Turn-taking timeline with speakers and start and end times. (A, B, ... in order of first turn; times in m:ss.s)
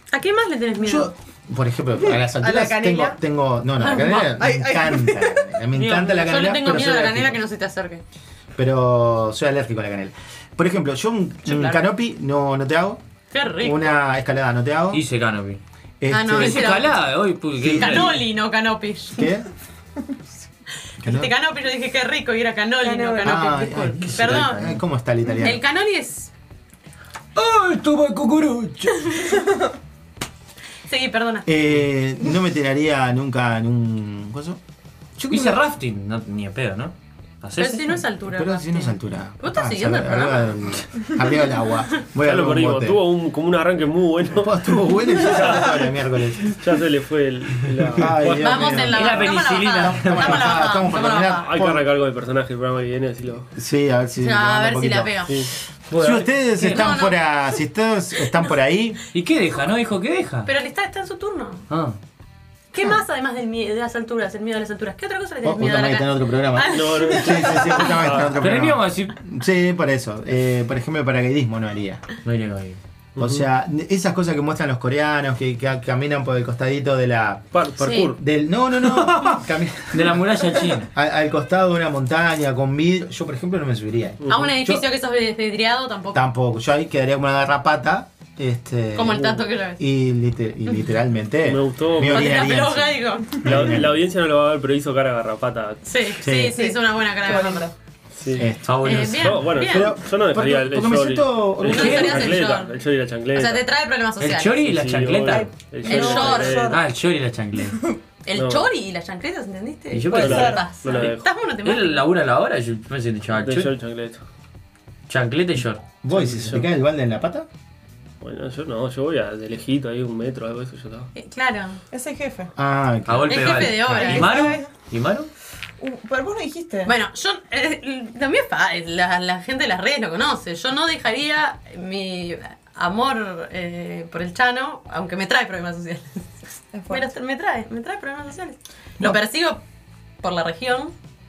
0:00.1-0:01.1 A
0:00.8-0:07.4 B
0:02.4-0:03.2 C
0:03.8-0:04.4 A
0:03.9-0:05.3 C
0:05.7-0:08.0 A
0:08.6-0:13.0 B
0:11.4-0:11.9 A
0:13.3-0:14.0 A
0:13.6-0:15.0 B
0:14.9-0:15.6 D
0:16.0-0:16.7 B
0:16.1-0:17.0 A
0:16.3-0:18.2 D
0:17.6-0:18.2 B
0:17.7-0:19.3 A
0:19.1-0:19.5 B
0:21.0-0:24.8 A
0:21.0-0:21.3 B
0:22.8-0:24.2 C
0:23.2-0:25.6 B
0:25.4-0:26.3 A
0:27.4-0:29.3 D
0:30.9-0:31.5 A
0:31.4-0:34.6 B
0:35.2-0:35.6 B
0:35.3-0:38.0 D
0:37.6-0:40.6 A
0:38.2-0:43.0 B
0:42.2-0:44.5 E
0:44.4-0:46.6 B
0:45.4-0:45.7 E
0:46.5-0:48.7 E
0:47.9-0:51.9 B
0:48.4-0:51.5 A
0:48.9-0:50.7 D
0:51.4-0:53.5 E
0:53.5-0:55.1 B
0:54.2-0:55.4 A
0:55.9-0:57.0 D
0:55.9-0:59.0 B
0:56.6-0:57.2 A
0:59.1-1:00.5 D
1:00.4-1:01.6 A
1:01.7-1:02.0 D
1:02.7-1:07.8 A
1:05.4-1:12.0 B
1:06.7-1:08.4 E
1:08.4-1:09.2 D
1:12.2-1:12.8 D
1:13.2-1:13.4 E
1:13.2-1:17.4 B
1:17.5-1:18.2 E
1:17.8-1:18.1 A
1:18.1-1:20.2 B
1:18.8-1:19.4 D
1:19.9-1:20.9 D
1:20.9-1:24.8 B
1:24.2-1:24.5 E
1:24.3-1:26.2 A
1:26.1-1:34.0 B
1:28.9-1:29.8 A
1:31.4-1:32.4 E
1:32.1-1:33.4 A
1:33.4-1:35.8 E
1:35.8-1:37.7 A
1:36.2-1:36.6 B
1:36.5-1:37.7 C
1:38.1-1:38.5 E
1:38.3-1:38.9 B
1:38.6-1:39.6 D
1:38.8-1:40.0 A
1:39.0-1:43.6 E
1:39.6-1:42.0 B
1:41.6-1:42.7 A
1:41.7-1:42.4 D
1:43.3-1:44.6 A
1:44.2-1:47.9 D
1:44.6-1:46.7 E
1:45.2-1:46.8 C
1:45.8-1:46.6 A
1:48.2-1:52.1 A
1:48.3-1:48.7 E
1:49.9-1:51.1 D
1:50.1-1:51.2 E
1:50.2-1:50.7 C
1:51.6-1:53.7 D
1:53.3-1:54.2 E
1:55.1-1:55.8 D
1:56.0-1:57.5 B
1:56.1-1:56.7 E
1:58.2-2:01.1 E
2:01.1-2:01.8 A
2:01.9-2:02.5 C
2:02.6-2:04.1 B
2:03.1-2:05.3 D
2:03.3-2:04.5 A
2:04.0-2:04.7 C
2:05.8-2:06.9 C
2:06.8-2:16.3 A
2:16.7-2:17.0 C
2:16.9-2:19.6 A
2:20.2-2:20.9 A